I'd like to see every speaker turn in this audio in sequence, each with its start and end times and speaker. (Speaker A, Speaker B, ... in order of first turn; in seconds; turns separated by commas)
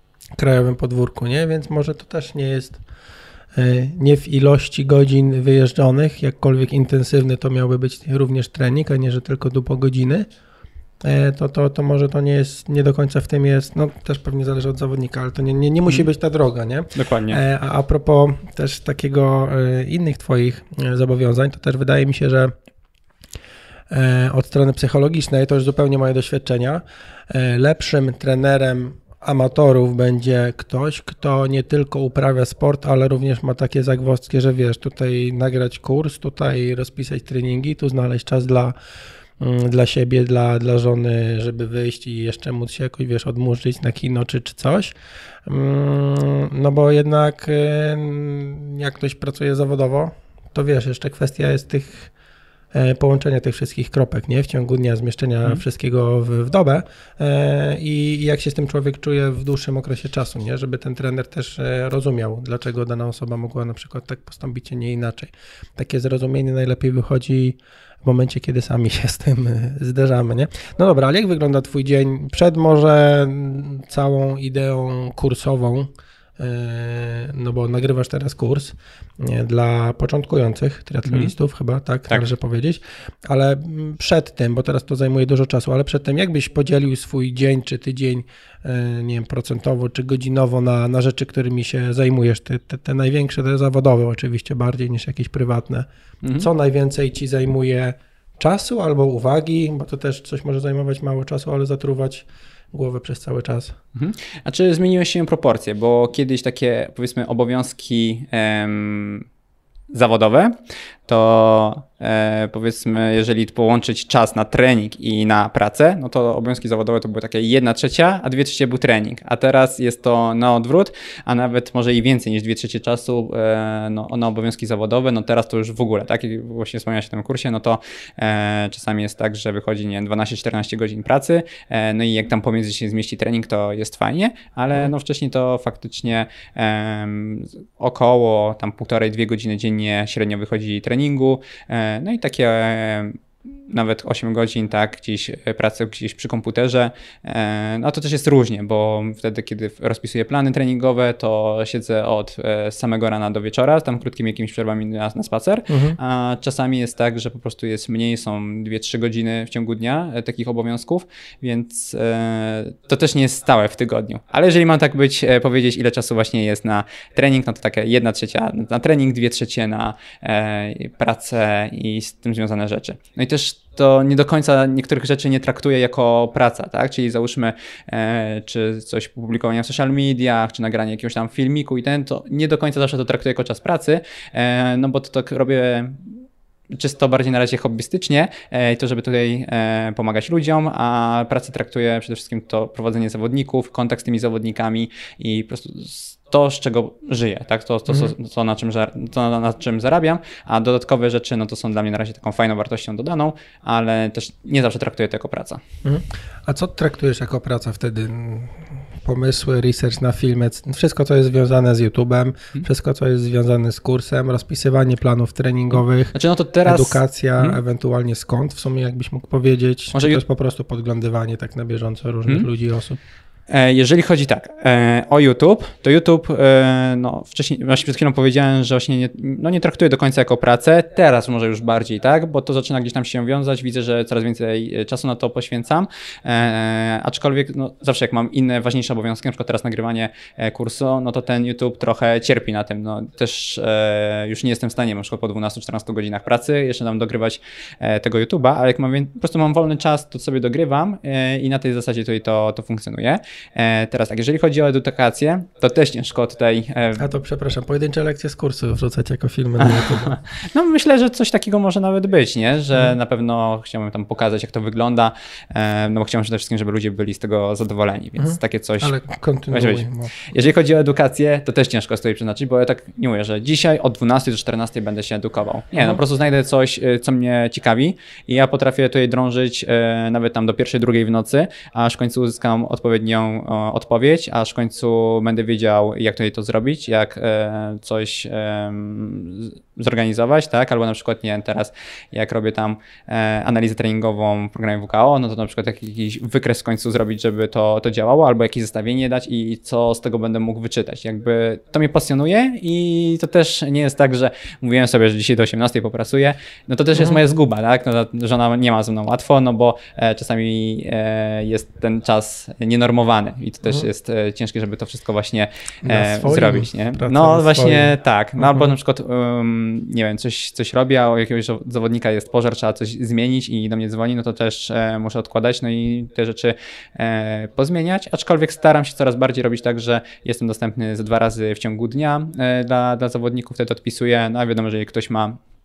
Speaker A: 0.3-2.8, Speaker A: 3.5-10.3, Speaker A: 11.0-22.5, Speaker B: 16.9-17.4, Speaker A: 23.9-38.7, Speaker A: 39.4-44.9, Speaker A: 45.5-52.1, Speaker A: 52.7-95.9, Speaker B: 96.2-96.5, Speaker A: 96.4-103.8, Speaker B: 104.0-109.3, Speaker B: 109.9-110.5, Speaker B: 111.1-186.1, Speaker A: 155.7-156.0, Speaker B: 186.7-205.6, Speaker A: 205.8-216.1, Speaker B: 215.7-217.6, Speaker A: 216.7-223.0, Speaker B: 219.9-220.2, Speaker B: 223.5-257.1, Speaker A: 257.0-260.1, Speaker B: 259.6-268.9, Speaker A: 268.2-270.3, Speaker B: 269.5-335.4, Speaker A: 315.8-318.7